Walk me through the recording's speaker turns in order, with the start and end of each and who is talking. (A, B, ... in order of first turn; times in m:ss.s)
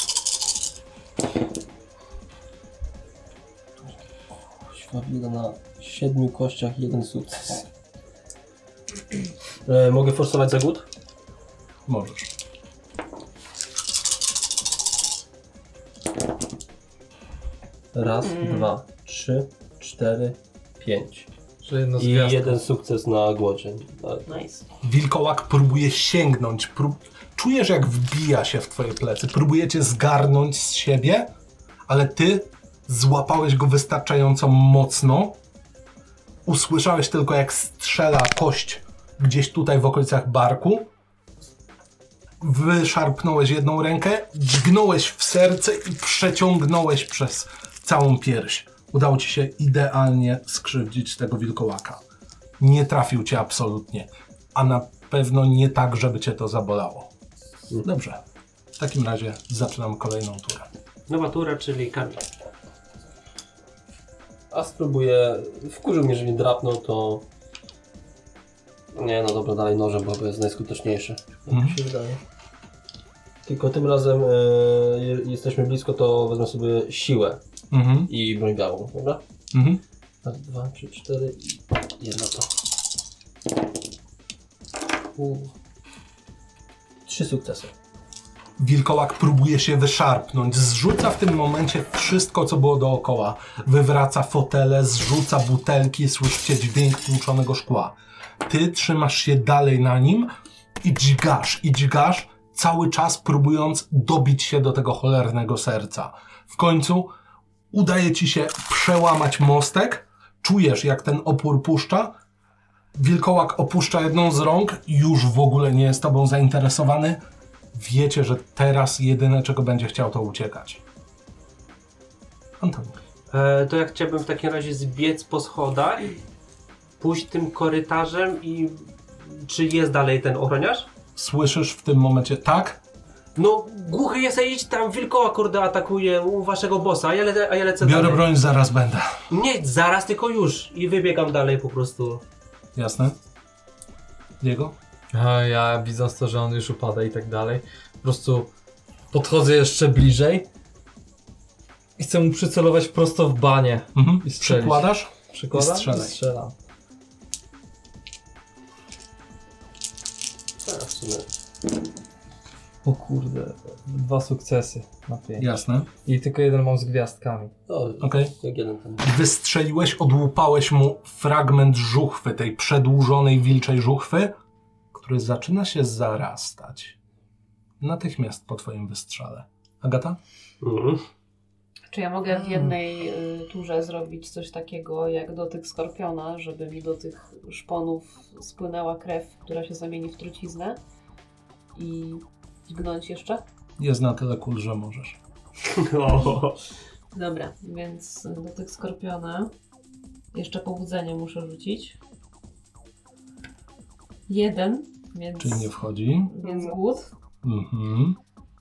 0:04.6-0:07.7 A
0:09.6-0:10.8 A
0:11.9-0:12.3 B
0:17.9-0:21.3 A
0:18.2-0:18.7 C
0:21.6-0:22.6 D
0:22.0-0:24.3 A
0:24.3-0:24.6 C
0:24.8-0:31.3 B
0:31.9-0:35.4 B
0:36.4-0:40.9 B
0:42.4-0:52.0 B
0:52.6-0:57.1 B
0:57.8-0:58.2 B
0:58.8-1:00.7 B
1:01.1-1:02.2 E
1:04.5-1:07.2 A
1:08.9-1:12.2 A
1:11.5-1:11.8 B
1:13.4-1:17.4 A
1:17.7-1:18.1 B
1:18.1-1:19.2 A
1:19.5-1:19.8 B
1:20.2-1:22.5 A
1:27.0-1:27.7 A
1:28.6-1:40.3 B
1:40.8-1:47.1 B
1:47.7-1:52.2 B
1:53.0-1:57.2 B
1:57.7-2:00.8 B
2:02.6-2:03.0 B
2:03.3-2:06.1 E
2:07.0-2:10.9 E
2:11.2-2:12.8 B
2:13.4-2:18.2 E
2:17.8-2:19.2 B
2:19.3-2:22.2 E
2:22.7-2:23.2 B
2:24.4-2:24.7 B
2:25.1-2:28.5 D
2:29.1-2:30.5 D
2:32.0-2:36.5 D
2:33.9-2:36.2 B
2:40.6-2:41.3 A
2:42.8-2:47.5 D
2:45.4-2:45.9 B
2:47.7-2:49.0 A
2:48.0-2:48.3 B
2:49.0-2:54.3 B
2:54.9-2:57.0 B
2:57.8-3:00.2 B
3:00.6-3:01.0 E
3:01.9-3:10.8 C
3:11.7-3:13.4 C
3:13.8-3:15.2 B
3:15.6-3:16.6 E
3:17.1-3:19.5 C
3:20.3-3:22.0 C
3:24.3-3:25.7 C
3:25.4-3:26.3 B
3:26.2-3:27.1 C
3:27.4-3:28.2 B